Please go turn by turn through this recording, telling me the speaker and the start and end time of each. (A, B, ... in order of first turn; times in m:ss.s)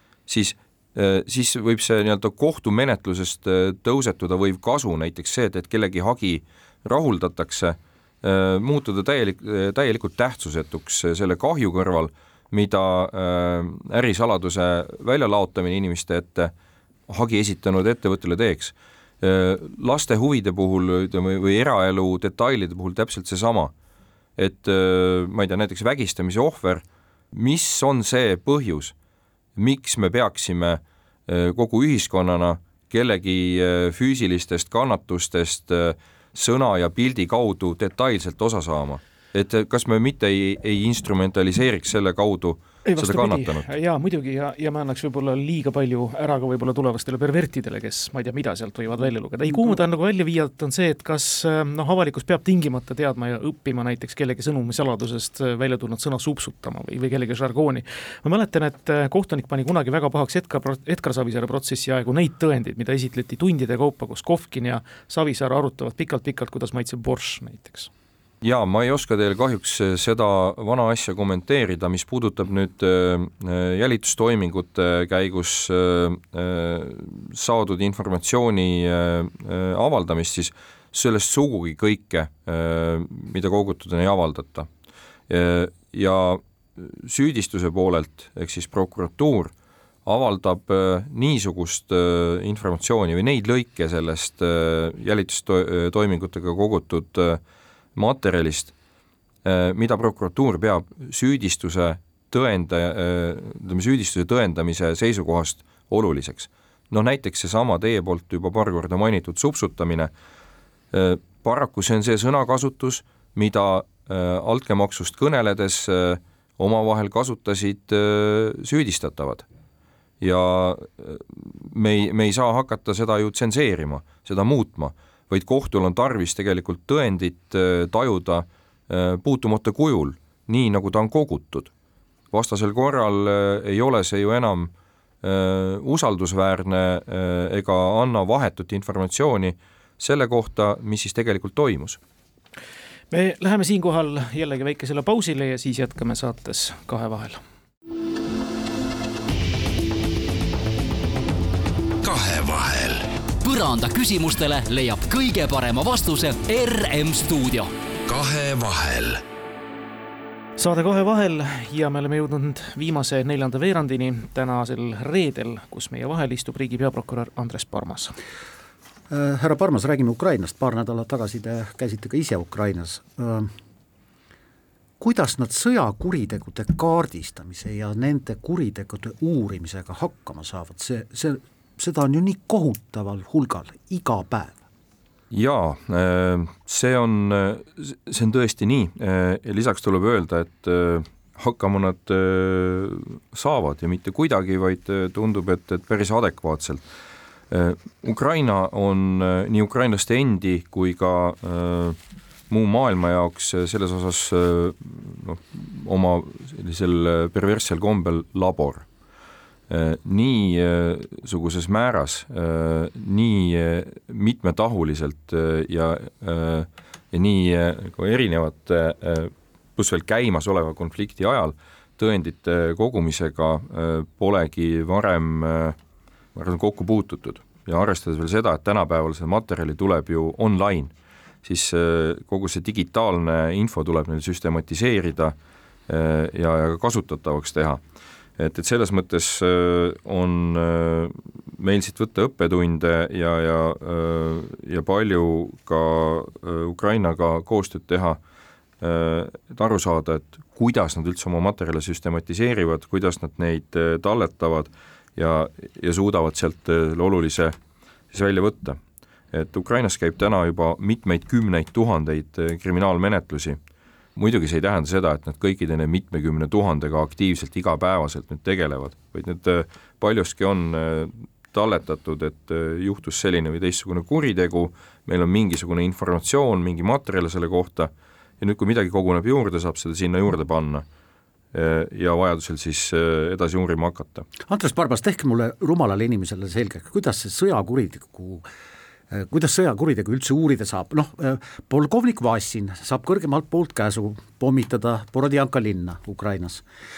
0:00.3-0:16.5 A
0:17.1-0:23.7 A
0:24.4-0:28.9 A
0:29.6-0:43.7 A
0:42.8-1:07.9 B
1:08.4-1:24.7 A
1:25.3-1:29.5 A
1:30.0-1:37.4 A
1:38.0-1:38.7 A
1:39.4-1:50.1 A
1:50.9-1:59.4 A
2:00.2-2:11.7 A
2:12.3-2:14.7 A
2:15.2-2:22.0 A
2:23.1-2:27.4 B
2:32.0-2:33.1 C
2:33.4-2:37.7 D
2:38.1-2:39.2 C
2:40.6-2:48.1 B
2:49.1-2:53.5 E
2:55.0-3:04.6 E
3:05.3-3:16.8 A
3:17.5-3:22.0 A
3:22.5-3:28.8 A
3:29.7-3:45.8 A
3:46.3-3:50.9 A
3:51.4-3:55.3 A
3:55.9-3:57.8 A
3:58.4-4:08.2 A
4:08.8-4:17.6 A
4:18.1-4:18.8 A
4:19.3-4:23.6 A
4:24.2-4:40.8 A
4:41.5-4:44.2 A
4:44.5-4:48.4 E
4:49.1-4:56.6 E